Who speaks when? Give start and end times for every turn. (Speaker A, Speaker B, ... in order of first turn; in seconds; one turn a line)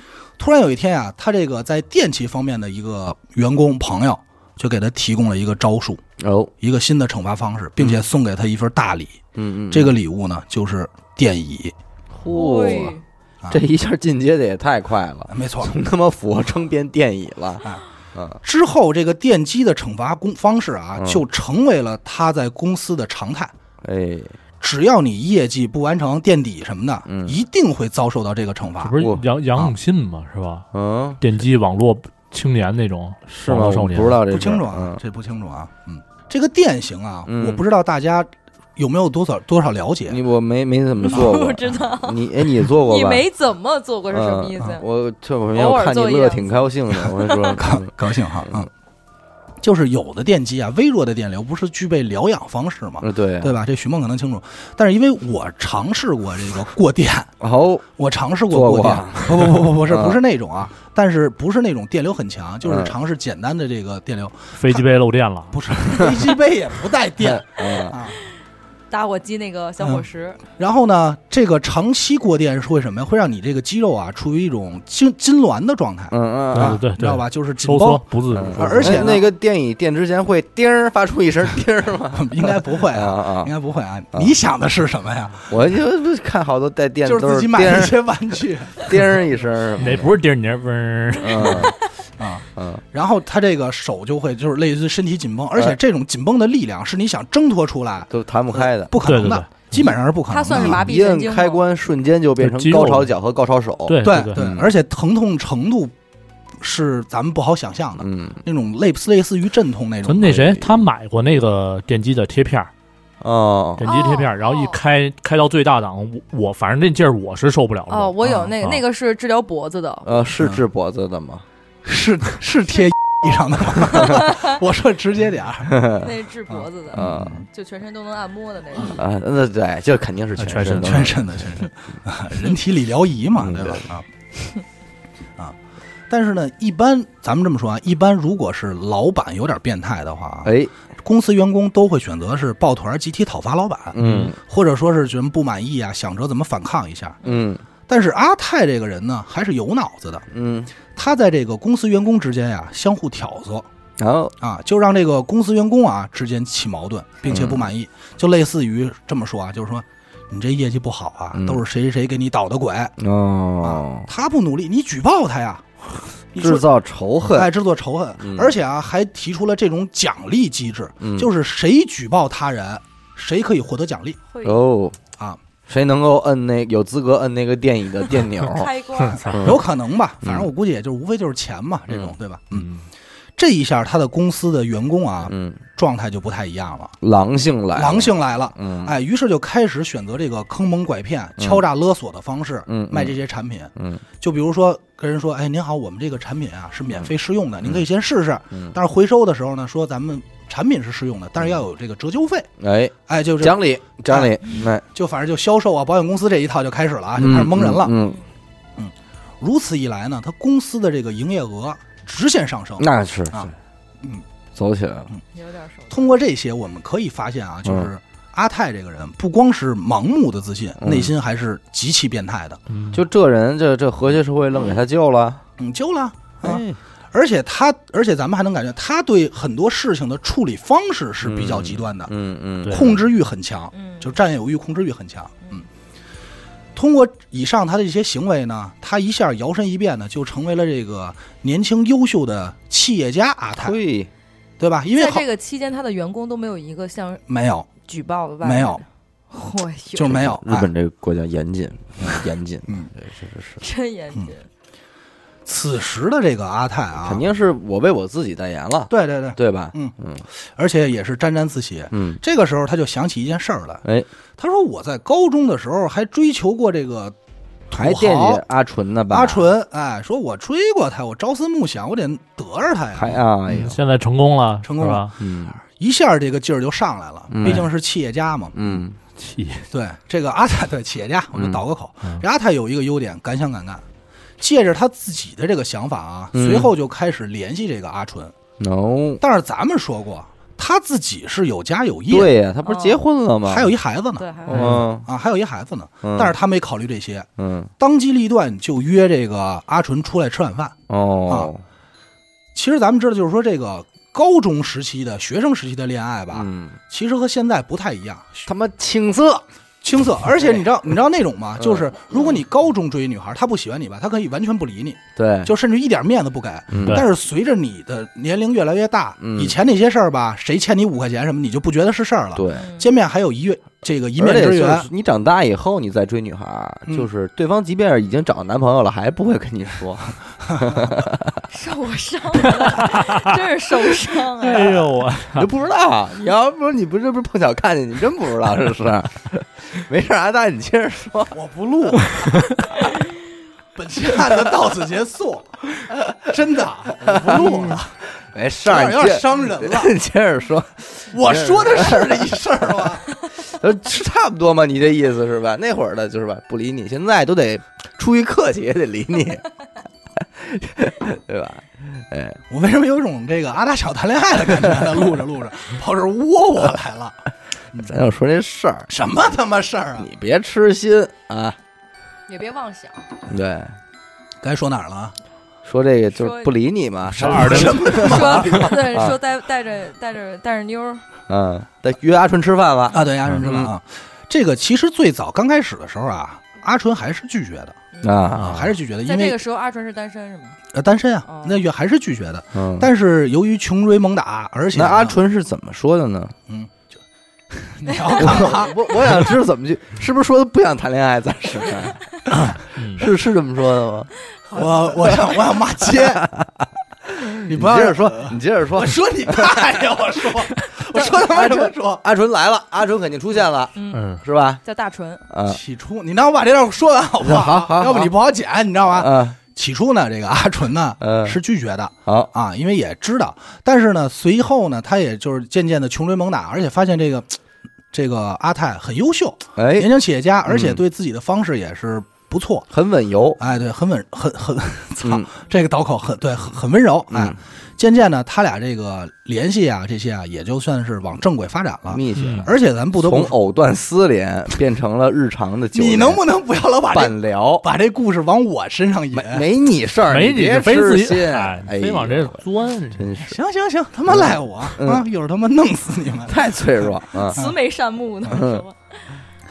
Speaker A: 0.4-6.0
Speaker B: 6.2-6.5
Speaker A: 6.6-11.8
Speaker B: 9.3-9.9
Speaker B: 12.1-13.0
Speaker C: 12.3-13.0
Speaker B: 13.5-18.4
Speaker A: 15.3-15.7
Speaker A: 18.4-23.5
Speaker B: 21.0-21.2
Speaker B: 23.8-24.4
Speaker A: 24.6-29.0
Speaker B: 27.1-27.4
Speaker D: 28.8-30.7
Speaker B: 29.0-29.6
Speaker B: 30.7-31.2
Speaker D: 31.2-34.2
Speaker B: 33.3-35.0
Speaker A: 34.3-40.2
Speaker B: 37.3-37.6
Speaker B: 40.1-43.3
Speaker C: 41.0-44.9
Speaker B: 44.1-48.7
Speaker C: 45.5-47.6
Speaker A: 47.6-48.7
Speaker A: 49.6-57.3
Speaker B: 53.0-53.6
Speaker B: 57.4-57.9
Speaker A: 58.0-64.8
Speaker B: 58.5-60.2
Speaker B: 62.6-63.0
Speaker D: 64.6-65.6
Speaker A: 65.5-68.2
Speaker B: 67.2-68.0
Speaker C: 68.9-70.4
Speaker A: 70.6-79.3
Speaker B: 76.1-76.8
Speaker D: 76.5-79.1
Speaker B: 78.3-83.5
Speaker A: 82.1-85.6
Speaker B: 85.5-88.0
Speaker A: 87.0-89.2
Speaker B: 88.8-90.1
Speaker D: 89.8-91.7
Speaker B: 91.2-91.8
Speaker A: 92.2-100.8
Speaker B: 92.6-92.8
Speaker B: 98.1-99.0
Speaker D: 99.0-99.9
Speaker C: 100.3-101.6
Speaker B: 100.5-104.7
Speaker D: 102.4-103.1
Speaker D: 103.9-104.4
Speaker A: 104.0-105.9
Speaker A: 106.6-110.4
Speaker B: 108.0-108.4
Speaker D: 110.0-112.7
Speaker B: 110.2-110.8
Speaker B: 113.2-113.9
Speaker D: 113.8-118.8
Speaker C: 113.8-114.8
Speaker C: 117.9-120.1
Speaker A: 118.2-118.5
Speaker B: 120.0-121.5
Speaker A: 121.8-125.9
Speaker C: 124.0-124.5
Speaker B: 125.7-126.1
Speaker C: 126.0-129.0
Speaker A: 126.5-127.5
Speaker B: 126.9-127.4
Speaker B: 128.9-131.2
Speaker D: 130.4-131.2
Speaker A: 130.7-134.1
Speaker B: 133.4-133.9
Speaker A: 136.1-147.2
Speaker B: 140.4-140.7
Speaker B: 143.9-144.4
Speaker D: 144.0-144.3
Speaker B: 147.2-147.6
Speaker A: 147.9-150.3
Speaker B: 150.3-150.7
Speaker A: 150.9-153.7
Speaker B: 154.0-154.3
Speaker A: 154.4-162.9
Speaker B: 157.3-157.7
Speaker B: 161.3-161.6
Speaker B: 163.0-164.1
Speaker A: 163.6-165.8
Speaker A: 166.3-166.7
Speaker B: 166.4-167.5
Speaker A: 167.3-174.2
Speaker B: 168.2-168.5
Speaker B: 171.0-171.3
Speaker C: 174.3-174.6
Speaker B: 174.4-175.0
Speaker B: 175.7-179.6
Speaker C: 178.4-179.4
Speaker D: 179.0-179.5
Speaker A: 179.3-182.7
Speaker B: 180.2-180.5
Speaker B: 181.9-182.1
Speaker D: 182.6-182.8
Speaker A: 183.4-186.9
Speaker B: 185.3-185.6
Speaker B: 187.0-188.9
Speaker A: 187.7-202.5
Speaker B: 192.7-193.2
Speaker B: 193.8-194.0
Speaker B: 202.6-204.8
Speaker A: 203.1-207.9
Speaker B: 207.2-208.2
Speaker A: 208.8-213.5
Speaker B: 212.8-213.5
Speaker B: 214.6-215.1
Speaker C: 215.3-216.1
Speaker A: 215.9-222.6
Speaker B: 220.8-221.1
Speaker D: 222.7-223.0
Speaker B: 222.9-225.4
Speaker A: 225.6-232.1
Speaker B: 226.4-226.8
Speaker B: 231.2-233.0
Speaker D: 232.7-232.9
Speaker A: 232.7-235.7
Speaker C: 233.7-234.1
Speaker A: 236.8-243.8
Speaker B: 243.6-244.1
Speaker A: 244.6-245.3
Speaker C: 244.9-247.2
Speaker A: 247.3-247.7
Speaker C: 247.8-250.3
Speaker A: 248.4-248.8
Speaker A: 249.9-250.7
Speaker B: 250.1-253.6
Speaker C: 253.6-254.5
Speaker A: 255.4-257.2
Speaker B: 257.0-260.2
Speaker A: 258.9-263.8
Speaker B: 261.9-262.2
Speaker A: 264.4-267.2
Speaker A: 267.7-268.4
Speaker B: 267.7-269.5
Speaker A: 269.1-273.2
Speaker B: 272.9-273.8
Speaker D: 273.5-275.1
Speaker A: 274.6-278.8
Speaker B: 275.2-275.6
Speaker B: 277.3-277.7
Speaker B: 278.5-279.0
Speaker D: 279.2-279.7
Speaker A: 279.7-283.8
Speaker B: 281.4-281.6
Speaker A: 284.4-288.4
Speaker B: 286.3-286.7
Speaker B: 288.6-289.2
Speaker A: 289.2-292.3
Speaker B: 292.1-293.7
Speaker C: 292.6-293.0
Speaker A: 293.5-300.8
Speaker C: 294.2-294.8
Speaker D: 294.5-294.8
Speaker B: 294.5-295.1
Speaker B: 296.0-296.4
Speaker B: 297.4-297.7
Speaker B: 300.9-301.6
Speaker A: 302.5-308.5
Speaker B: 306.3-306.8
Speaker B: 308.4-309.4
Speaker A: 309.8-324.9
Speaker B: 311.6-312.2
Speaker B: 315.2-315.5
Speaker B: 316.7-317.1
Speaker B: 319.2-319.6
Speaker B: 322.4-322.7
Speaker C: 322.6-322.9
Speaker B: 324.2-331.4
Speaker C: 331.5-335.0
Speaker D: 332.6-333.2
Speaker D: 334.4-335.5
Speaker B: 335.3-341.4
Speaker A: 341.3-342.3
Speaker A: 343.8-348.0
Speaker B: 345.9-346.2
Speaker B: 347.0-352.4
Speaker A: 348.6-349.9
Speaker A: 351.0-353.1
Speaker B: 353.4-359.4
Speaker B: 360.2-362.4
Speaker A: 362.5-368.0
Speaker B: 367.8-368.9
Speaker A: 368.9-370.1
Speaker B: 370.0-371.6
Speaker C: 372.3-373.1
Speaker B: 373.3-373.8
Speaker A: 374.4-375.1
Speaker B: 375.6-379.2
Speaker C: 376.2-376.5
Speaker A: 377.1-378.7
Speaker D: 377.1-378.0
Speaker C: 377.8-381.1
Speaker B: 381.3-383.7
Speaker A: 382.9-387.8
Speaker C: 387.9-388.3
Speaker B: 388.0-388.7
Speaker A: 388.4-389.4
Speaker D: 388.4-388.6
Speaker C: 389.0-390.6
Speaker A: 390.7-395.2
Speaker C: 391.3-391.6
Speaker B: 392.5-392.9
Speaker B: 394.7-396.4
Speaker A: 396.5-397.0
Speaker A: 397.5-399.3
Speaker C: 397.9-398.4
Speaker B: 398.2-402.0
Speaker D: 402.5-403.1
Speaker B: 402.9-404.1
Speaker A: 404.5-406.3
Speaker B: 405.8-414.6
Speaker A: 407.4-412.0
Speaker C: 413.8-415.2
Speaker D: 413.9-414.2
Speaker B: 415.3-415.6
Speaker A: 415.5-427.4
Speaker B: 417.2-418.1
Speaker B: 418.9-419.4
Speaker B: 421.0-421.4
Speaker B: 422.1-422.3
Speaker A: 427.9-432.7
Speaker B: 429.6-429.9
Speaker B: 430.5-430.8
Speaker B: 432.7-433.4
Speaker A: 433.4-443.3
Speaker B: 437.1-437.4
Speaker B: 441.9-446.2
Speaker D: 442.2-442.5
Speaker A: 445.7-449.5
Speaker B: 446.9-447.7
Speaker B: 449.1-453.4
Speaker D: 450.1-453.0
Speaker A: 453.2-456.5
Speaker B: 454.1-455.1
Speaker B: 456.3-457.4
Speaker C: 457.1-458.8
Speaker B: 458.3-458.6